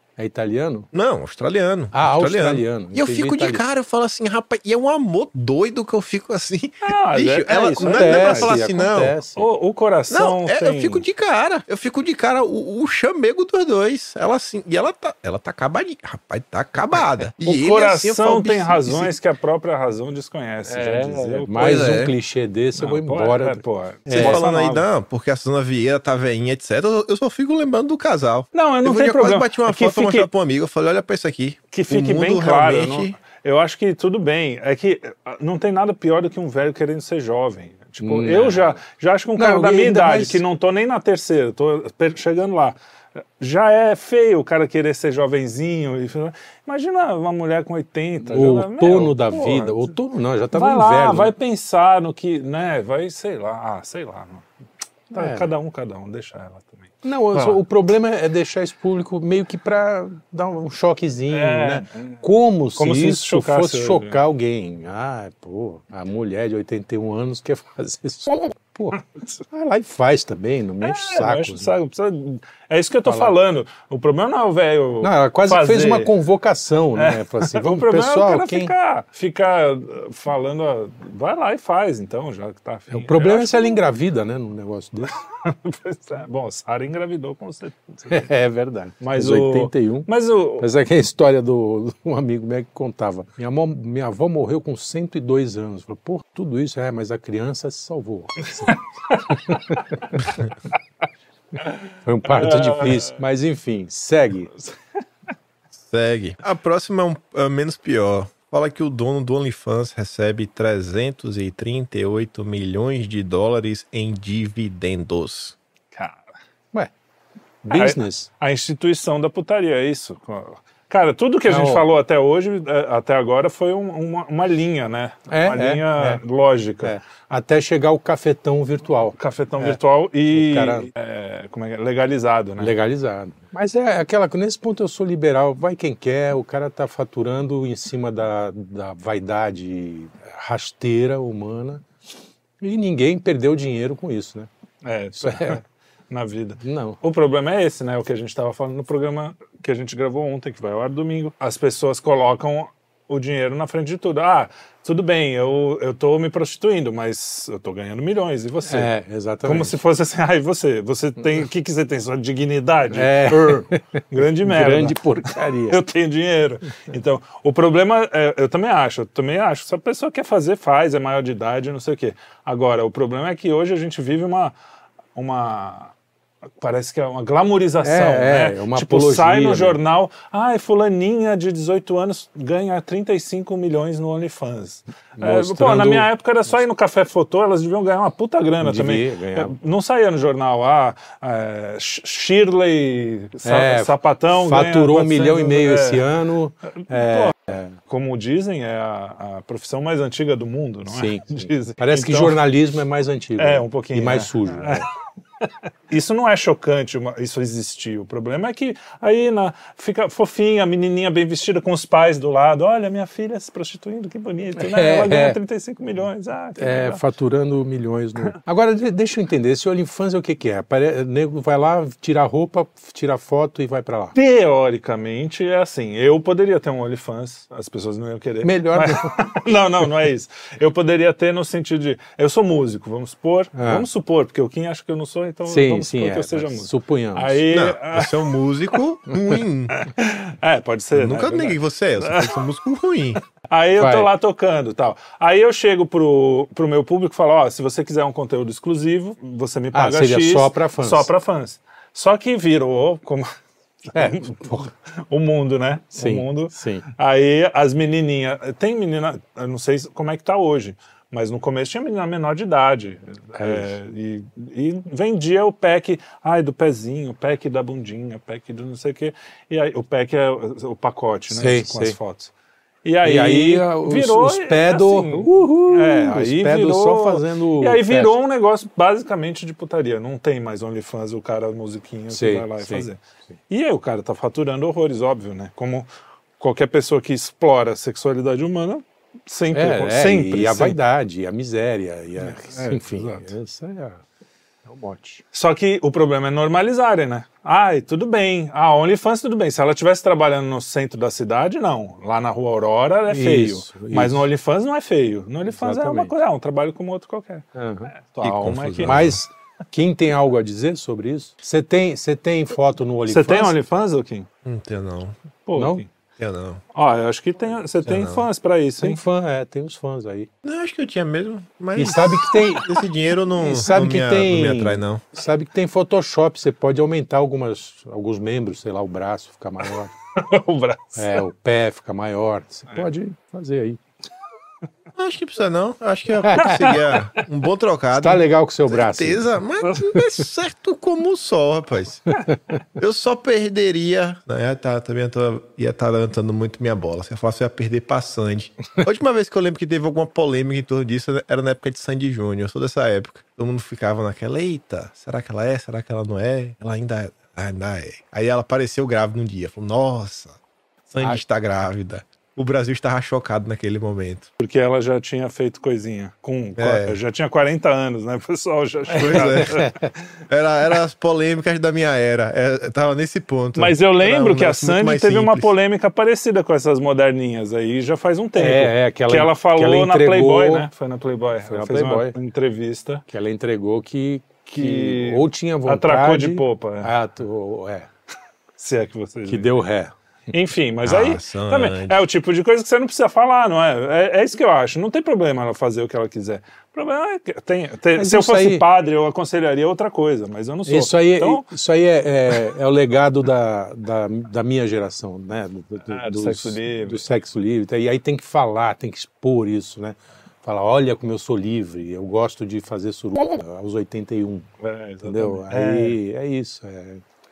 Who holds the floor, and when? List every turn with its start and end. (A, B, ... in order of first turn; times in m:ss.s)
0:00.2-0:00.9 A
0:00.9-0:09.2 B
0:01.9-0:03.7 A
0:06.8-0:08.6 C
0:07.7-0:09.4 A
0:09.4-0:11.0 C
0:10.1-0:19.1 B
0:17.4-0:22.0 C
0:20.7-0:24.4 A
0:21.6-0:22.1 B
0:22.8-0:24.9 C
0:24.1-0:33.2 B
0:28.5-0:30.3 C
0:31.7-0:42.8 C
0:38.0-0:38.8 A
0:39.4-0:40.4 A
0:43.4-0:49.9 C
0:48.2-0:51.4 A
0:50.5-0:54.4 C
0:55.1-0:57.6 C
0:55.2-0:55.5 A
0:57.0-1:11.7 A
1:01.3-1:02.2 C
1:02.8-1:04.2 C
1:10.8-1:16.1 C
1:13.1-1:13.4 A
1:15.0-1:18.7 A
1:17.0-1:23.8 C
1:22.9-1:25.2 A
1:25.1-1:28.2 C
1:28.1-1:40.0 A
1:29.0-1:30.7 C
1:38.7-1:39.6 C
1:41.6-1:43.2 C
1:42.0-1:44.5 A
1:45.8-1:55.6 B
1:55.9-1:56.3 C
1:57.6-1:58.3 A
1:57.7-2:07.0 C
2:01.5-2:01.9 A
2:05.3-2:06.2 A
2:06.8-2:09.8 A
2:09.2-2:12.8 C
2:10.3-2:10.9 A
2:12.6-2:21.9 A
2:22.6-2:24.5 A
2:24.8-2:38.9 C
2:25.2-2:25.6 A
2:26.6-2:27.0 A
2:38.7-2:39.8 A
2:39.4-2:54.6 C
2:42.9-2:45.8 A
2:55.2-2:55.9 C
2:56.6-3:16.1 C
2:57.8-2:59.8 A
3:05.2-3:06.1 A
3:08.6-3:09.5 A
3:13.4-3:17.8 A
3:16.8-3:17.3 C
3:17.9-3:22.4 C
3:20.9-3:24.9 A
3:23.4-3:24.9 C
3:25.4-3:37.0 C
3:34.6-3:35.4 A
3:36.6-3:44.1 A
3:44.2-3:58.8 C
3:48.4-3:49.2 A
3:53.6-3:53.9 A
3:55.5-3:57.5 A
3:57.5-3:59.8 B
3:59.7-4:02.4 C
4:00.9-4:03.2 B
4:03.4-4:13.3 C
4:03.8-4:04.1 A
4:09.7-4:11.1 A
4:13.8-4:32.3 C
4:14.0-4:14.7 A
4:16.0-4:16.9 A
4:23.4-4:23.7 A
4:31.3-4:32.0 A
4:32.8-4:45.9 C
4:33.0-4:38.2 A
4:42.1-4:42.9 A
4:46.4-4:50.8 C
4:49.5-4:54.0 A
4:52.2-4:53.3 C
4:54.6-4:55.2 A
4:55.3-5:07.4 C
5:03.1-5:04.3 A
5:05.5-5:06.1 A
5:07.6-5:07.9 A
5:08.0-5:09.2 C
5:08.2-5:09.2 B
5:08.8-5:13.6 A
5:13.1-5:14.3 C
5:14.4-5:15.2 B
5:15.5-5:15.9 C
5:15.6-5:15.8 A
5:16.2-5:16.6 B
5:16.7-5:19.0 C
5:17.9-5:18.2 B
5:18.8-5:20.3 A
5:20.4-5:25.0 B
5:21.8-5:22.8 A
5:23.4-5:29.9 A
5:30.2-5:31.2 C
5:31.0-5:33.8 A
5:35.0-5:42.1 B
5:36.2-5:36.8 A
5:36.4-5:37.2 C
5:38.0-5:40.0 A
5:42.8-6:00.4 B
6:00.9-6:04.3 B
6:04.4-6:09.7 C
6:06.6-6:07.0 B
6:08.9-6:09.6 B
6:09.1-6:09.9 A
6:10.3-6:15.5 B
6:13.6-6:23.0 C
6:18.4-6:20.7 A
6:21.4-6:22.2 A
6:23.1-6:27.9 A
6:24.5-6:26.9 C
6:28.6-6:29.5 C
6:29.3-6:29.9 A
6:30.3-6:41.5 C
6:30.8-6:32.0 B
6:38.0-6:38.6 A
6:40.7-6:54.5 A
6:45.9-6:47.0 C
6:54.6-6:56.0 C
6:55.0-6:57.0 A